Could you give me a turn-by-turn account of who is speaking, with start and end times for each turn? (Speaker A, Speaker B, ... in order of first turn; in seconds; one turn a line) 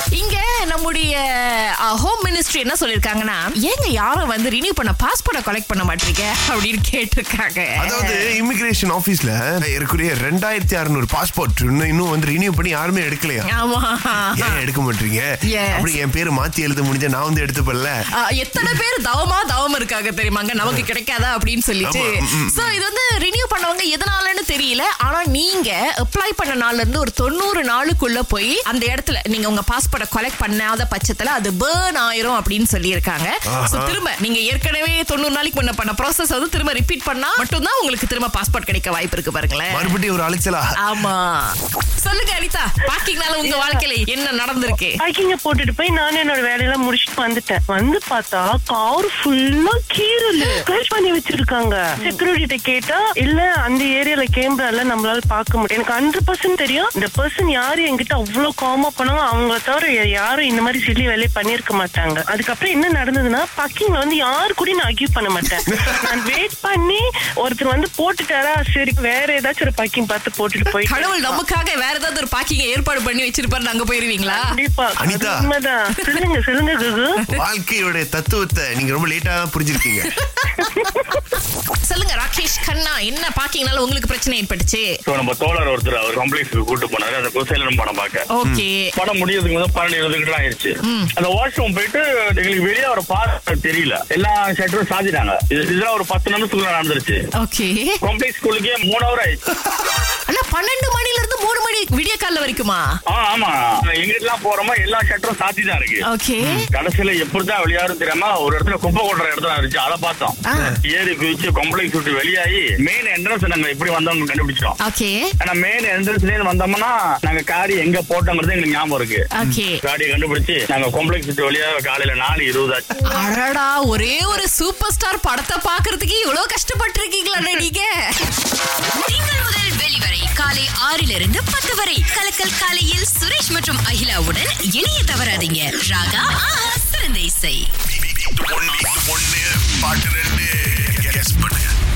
Speaker A: 0.1-8.3
Speaker B: 7.8-13.5
Speaker A: 13.5-14.6
Speaker B: 14.3-18.0
Speaker A: 15.5-15.9
Speaker A: 18.2-39.9
Speaker B: 21.8-22.8
Speaker B: 33.5-34.0
Speaker B: 39.7-40.7
Speaker A: 40.8-45.0
Speaker C: 45.0-71.4
Speaker A: 70.9-74.5
Speaker C: 74.3-77.1
Speaker B: 75.0-75.5
Speaker B: 77.3-80.1
Speaker A: 80.4-80.9
Speaker A: 81.8-84.9
Speaker D: 85.1-88.2
Speaker A: 88.3-88.9
Speaker D: 89.0-97.2
Speaker A: 90.8-91.1
Speaker A: 97.4-98.0
Speaker D: 98.0-99.4
Speaker A: 100.3-102.9
Speaker D: 103.1-106.0
Speaker A: 106.1-106.7
Speaker B: 106.4-106.7
Speaker D: 106.7-110.4
Speaker A: 110.5-110.8
Speaker D: 110.9-114.8
Speaker A: 114.8-115.2
Speaker D: 115.4-119.2
Speaker A: 119.3-119.8
Speaker D: 119.8-122.9
Speaker A: 123.1-127.9
Speaker E: 129.1-137.7
Speaker B: 138.0-141.7